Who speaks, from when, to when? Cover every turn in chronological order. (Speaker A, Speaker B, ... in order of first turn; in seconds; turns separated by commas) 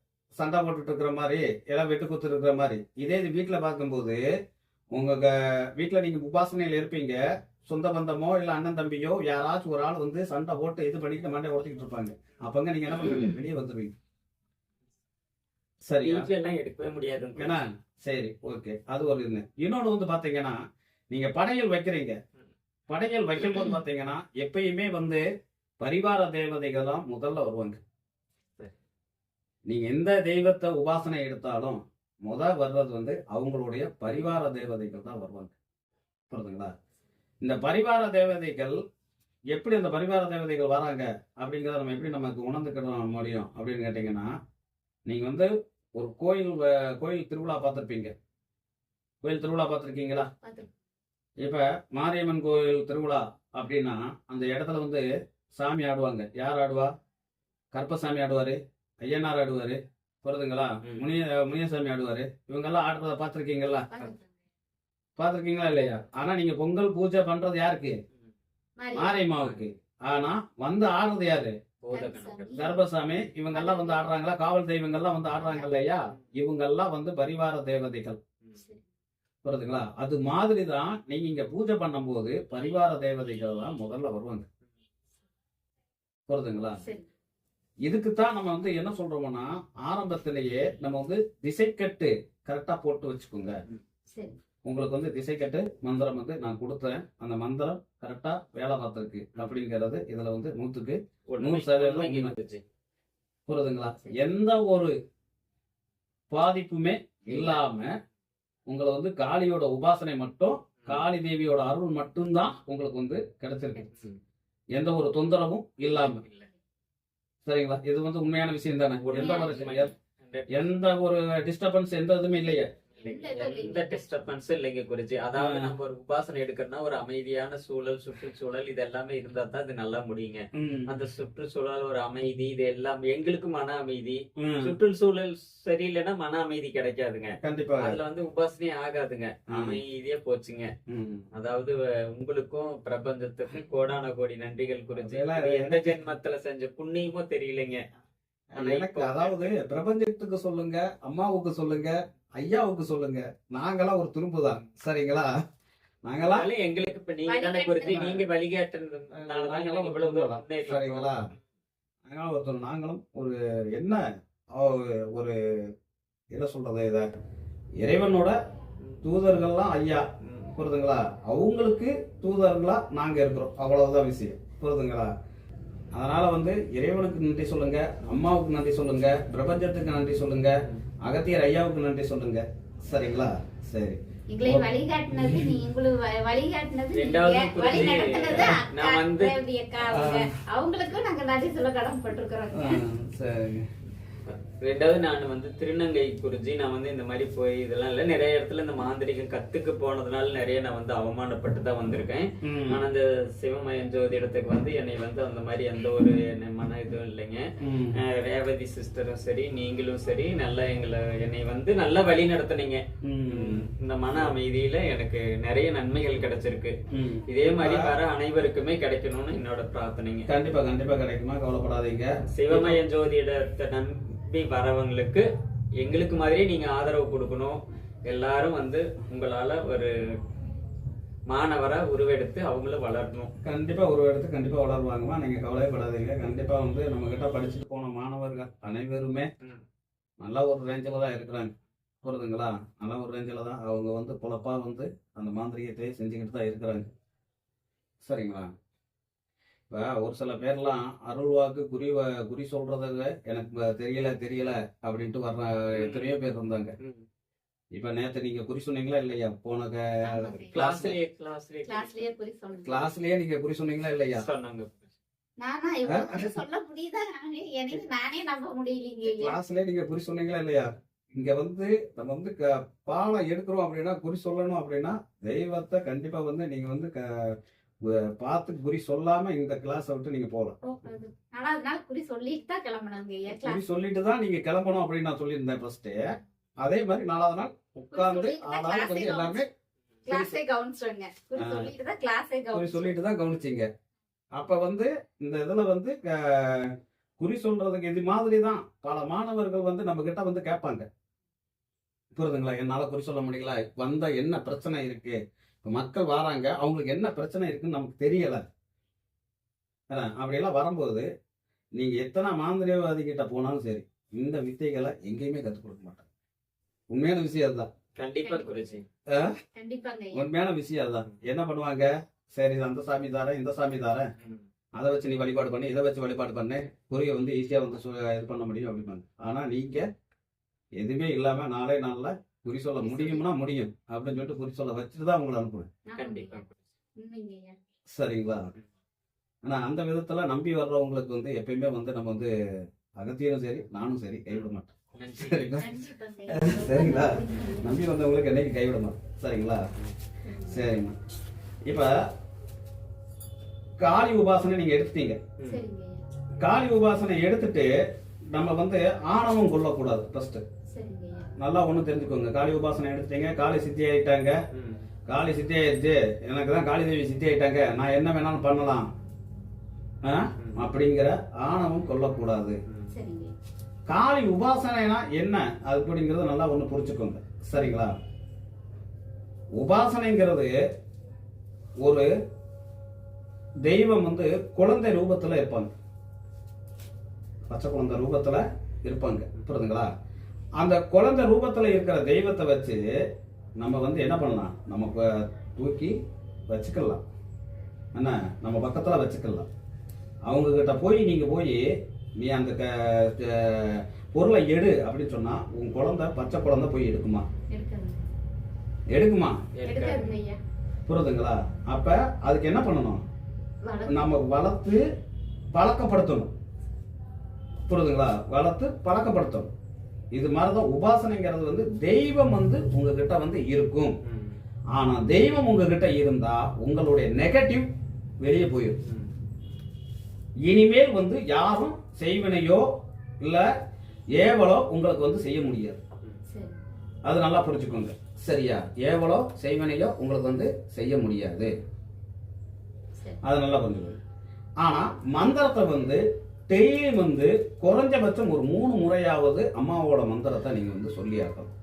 Speaker A: 0.4-4.2, Speaker A: 4.9-13.9, Speaker A: 15.9-16.2, Speaker B: 16.0-17.6, Speaker A: 17.4-20.6, Speaker A: 21.1-22.2, Speaker A: 22.9-25.2, Speaker A: 25.8-27.8, Speaker A: 29.7-35.5, Speaker A: 36.3-36.7, Speaker A: 37.4-38.8, Speaker A: 39.5-44.3, Speaker A: 45.0-48.1, Speaker A: 49.2-50.3, Speaker C: 50.4-50.7, Speaker A: 51.4-56.9, Speaker A: 57.7-63.9, Speaker C: 63.9-64.3, Speaker A: 65.2-68.0, Speaker C: 68.8-69.3, Speaker A: 68.9-71.5, Speaker B: 69.4-69.6, Speaker B: 71.8-72.6, Speaker C: 71.9-72.8, Speaker A: 72.5-78.2, Speaker C: 73.5-74.0, Speaker C: 75.3-75.7, Speaker C: 78.5-78.8, Speaker A: 79.4-84.5, Speaker A: 86.3-86.8, Speaker A: 87.8-93.6, Speaker A: 94.6-102.3, Speaker B: 101.3-102.6, Speaker A: 103.5-104.9, Speaker A: 106.3-107.9, Speaker B: 107.3-107.6, Speaker A: 108.7-113.9, Speaker A: 114.7-116.2, Speaker B: 115.9-116.5, Speaker A: 117.4-119.9, Speaker B: 119.0-120.7, Speaker C: 119.2-119.8, Speaker A: 120.5-122.7, Speaker B: 122.9-140.7, Speaker C: 123.0-124.1, Speaker A: 125.3-125.7, Speaker A: 130.5-130.9, Speaker A: 134.4-134.8, Speaker A: 137.4-138.0, Speaker A: 139.5-139.8, Speaker A: 140.9-141.2, Speaker B: 141.3-147.8, Speaker A: 145.0-145.8, Speaker A: 148.5-155.3, Speaker B: 148.6-149.5, Speaker A: 156.0-156.5, Speaker B: 156.2-161.1, Speaker C: 157.2-158.2, Speaker A: 157.9-158.2, Speaker A: 159.1-161.2, Speaker A: 162.1-165.3, Speaker A: 166.3-167.1, Speaker A: 167.8-168.3, Speaker A: 169.0-175.1, Speaker B: 170.2-170.5, Speaker A: 175.9-185.6, Speaker C: 184.3-192.8, Speaker B: 186.9-189.4, Speaker A: 189.8-190.3, Speaker A: 192.5-193.7, Speaker B: 194.2-216.7, Speaker A: 202.4-202.8, Speaker A: 207.6-208.0, Speaker A: 213.0-213.7, Speaker A: 216.9-218.0, Speaker B: 217.3-220.3, Speaker A: 220.3-222.8, Speaker B: 222.3-225.2, Speaker B: 225.8-229.9, Speaker B: 231.3-233.3, Speaker A: 233.4-239.3, Speaker A: 240.2-241.5, Speaker A: 242.0-246.9, Speaker A: 248.0-248.5, Speaker A: 249.7-256.7, Speaker B: 255.8-256.1, Speaker A: 257.7-261.0, Speaker C: 260.0-260.6, Speaker B: 260.4-262.1, Speaker C: 261.7-262.9, Speaker A: 262.6-264.2, Speaker B: 264.1-264.9, Speaker C: 265.4-269.4, Speaker A: 265.9-266.3, Speaker A: 269.1-280.6, Speaker C: 280.6-283.6, Speaker A: 283.4-286.0, Speaker A: 286.6-289.5, Speaker C: 287.9-289.4, Speaker C: 290.1-292.9, Speaker A: 291.4-291.7, Speaker A: 292.5-293.7, Speaker A: 294.3-300.9, Speaker A: 302.1-308.4, Speaker A: 309.9-311.1, Speaker A: 311.8-316.1, Speaker A: 316.9-317.7, Speaker B: 318.0-318.8, Speaker C: 318.2-318.8, Speaker A: 319.1-319.4, Speaker C: 319.5-320.2, Speaker A: 320.1-324.1, Speaker A: 324.8-329.9, Speaker A: 330.8-335.7, Speaker C: 332.8-333.2, Speaker C: 335.9-336.4, Speaker B: 335.9-336.5, Speaker C: 337.0-337.6, Speaker A: 337.9-338.5, Speaker A: 339.4-342.3, Speaker A: 343.0-345.7, Speaker B: 344.3-345.6, Speaker C: 345.6-347.8, Speaker A: 346.3-349.6, Speaker C: 350.2-350.6, Speaker A: 350.4-350.9, Speaker A: 351.6-351.9, Speaker A: 353.8-355.2, Speaker B: 355.4-355.6, Speaker C: 355.4-356.0, Speaker A: 356.4-357.7, Speaker A: 358.3-360.4, Speaker C: 360.7-361.3, Speaker A: 361.4-364.4, Speaker B: 364.5-364.9, Speaker A: 365.1-368.9, Speaker A: 370.0-372.6, Speaker B: 370.4-370.7, Speaker C: 372.9-373.3, Speaker A: 373.9-377.9, Speaker A: 379.6-380.6, Speaker A: 381.8-382.1, Speaker A: 383.6-385.7, Speaker A: 387.5-389.9, Speaker A: 390.6-392.8, Speaker A: 393.6-396.0, Speaker A: 396.5-397.0, Speaker A: 397.9-399.5, Speaker A: 400.3-401.6, Speaker A: 402.2-407.3, Speaker C: 407.5-408.0, Speaker A: 408.9-409.4, Speaker B: 409.6-410.1, Speaker C: 409.6-410.4, Speaker A: 410.9-413.0, Speaker C: 413.6-414.1, Speaker A: 413.9-414.8, Speaker A: 415.5-416.3, Speaker A: 417.7-419.5, Speaker A: 420.1-423.9, Speaker B: 424.0-424.4, Speaker A: 424.7-428.8, Speaker B: 428.8-429.1, Speaker A: 430.4-432.7, Speaker A: 433.2-433.5, Speaker A: 434.1-435.8, Speaker C: 436.3-436.6, Speaker A: 437.0-441.5, Speaker A: 443.2-444.0, Speaker A: 444.6-451.5